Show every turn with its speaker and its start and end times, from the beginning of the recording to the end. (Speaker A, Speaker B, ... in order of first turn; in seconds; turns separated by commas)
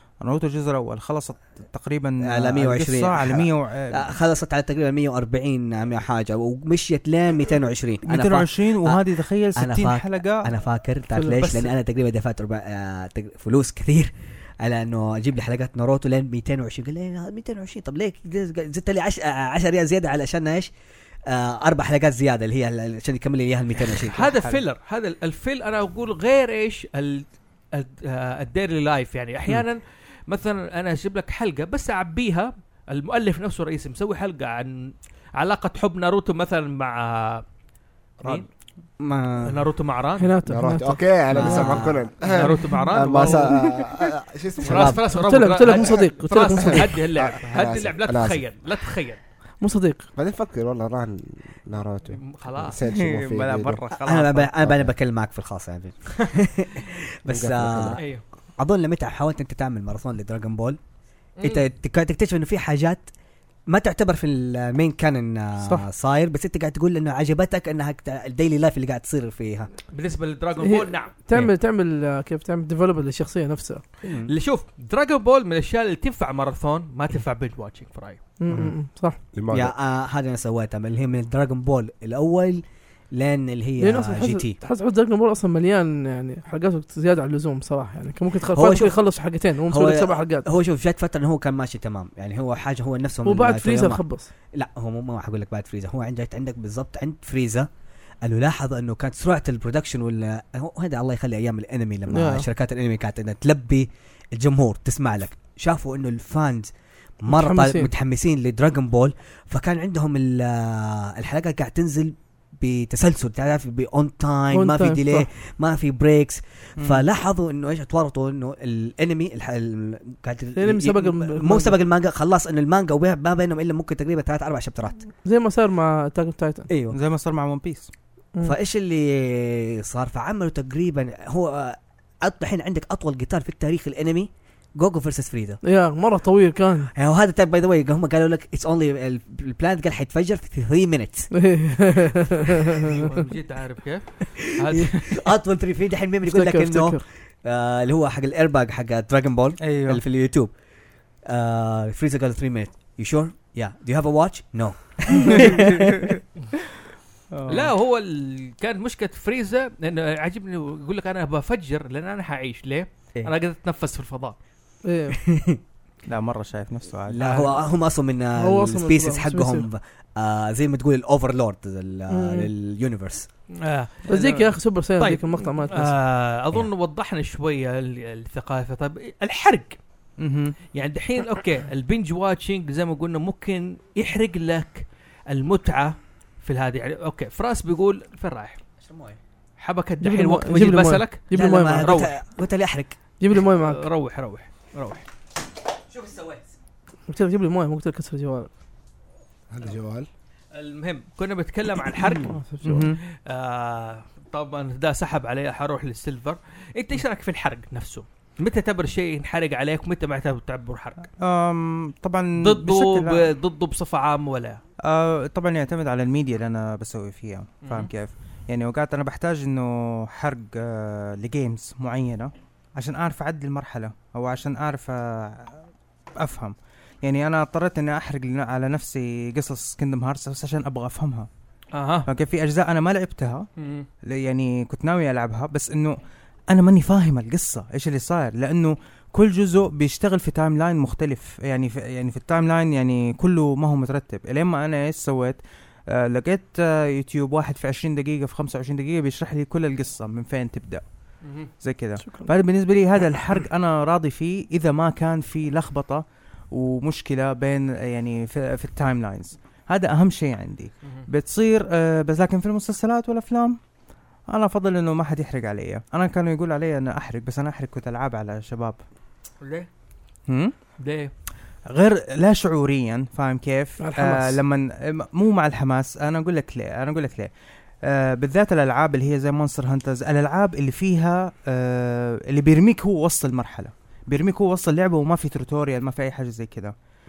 Speaker A: 0.2-4.0, Speaker B: 2.2-9.0, Speaker A: 8.1-10.5, Speaker B: 9.6-20.7, Speaker C: 11.2-11.6, Speaker B: 21.2-24.3, Speaker D: 24.0-37.4, Speaker D: 38.2-38.5, Speaker B: 39.0-39.6, Speaker D: 39.4-40.3, Speaker C: 40.2-41.8, Speaker E: 40.5-45.1, Speaker B: 41.3-42.1, Speaker D: 42.2-43.8, Speaker D: 44.6-49.2, Speaker B: 44.6-45.0, Speaker C: 45.1-47.0, Speaker E: 45.7-46.0, Speaker E: 46.6-48.4, Speaker C: 49.6-50.1, Speaker E: 50.1-53.8, Speaker D: 52.1-52.8, Speaker A: 52.8-54.5, Speaker B: 54.0-58.0, Speaker E: 54.6-54.9, Speaker E: 57.3-58.0, Speaker D: 58.0-58.2, Speaker B: 58.6-60.8, Speaker D: 61.4-61.6, Speaker B: 61.4-63.1, Speaker B: 63.7-69.7, Speaker D: 69.9-71.2, Speaker C: 70.6-73.8, Speaker B: 74.0-74.3, Speaker D: 74.2-78.2, Speaker C: 78.4-79.2, Speaker E: 79.3-79.7, Speaker B: 79.5-84.6, Speaker C: 83.8-90.5, Speaker B: 88.5-89.0, Speaker B: 89.7-94.0, Speaker C: 93.2-94.3, Speaker B: 94.5-97.7, Speaker B: 98.2-106.7, Speaker C: 102.1-102.5, Speaker B: 107.2-125.0, Speaker C: 107.3-107.9, Speaker C: 114.5-115.2, Speaker A: 116.8-117.0, Speaker C: 120.6-121.7, Speaker C: 125.2-126.7, Speaker B: 126.7-127.0, Speaker A: 126.9-127.9, Speaker B: 128.4-135.6, Speaker C: 135.6-136.9, Speaker B: 136.9-141.3, Speaker C: 141.3-143.0, Speaker D: 142.9-145.3, Speaker B: 144.4-150.5, Speaker C: 146.2-147.0, Speaker A: 149.6-150.0, Speaker B: 151.2-156.1, Speaker A: 155.3-156.2, Speaker A: 157.3-157.7, Speaker D: 157.5-164.4, Speaker C: 164.8-165.2, Speaker B: 165.2-165.6, Speaker A: 166.1-167.4, Speaker B: 167.1-173.3, Speaker C: 168.4-169.7, Speaker C: 172.1-172.5, Speaker D: 173.5-179.8, Speaker C: 174.1-176.0, Speaker A: 180.2-180.6, Speaker D: 180.7-188.6, Speaker B: 188.8-189.2, Speaker D: 189.6-192.1, Speaker C: 190.0-191.9, Speaker B: 191.3-192.9, Speaker C: 193.2-193.9, Speaker D: 193.5-195.1, Speaker D: 196.0-196.4, Speaker C: 197.1-198.5, Speaker E: 199.5-200.1, Speaker D: 200.5-202.4, Speaker C: 202.2-202.9, Speaker A: 202.6-203.0, Speaker D: 203.2-211.1, Speaker A: 211.2-213.3, Speaker D: 212.4-214.6, Speaker A: 214.8-225.6, Speaker D: 217.6-217.9, Speaker A: 226.2-231.3, Speaker D: 231.7-232.1, Speaker A: 232.1-233.5, Speaker D: 233.6-233.9, Speaker A: 234.0-236.0, Speaker A: 236.5-250.8, Speaker A: 251.5-263.6, Speaker A: 264.3-268.8, Speaker D: 269.4-269.7, Speaker A: 270.3-270.5, Speaker D: 270.8-271.1, Speaker A: 271.6-277.3, Speaker C: 273.8-274.4, Speaker A: 277.8-286.7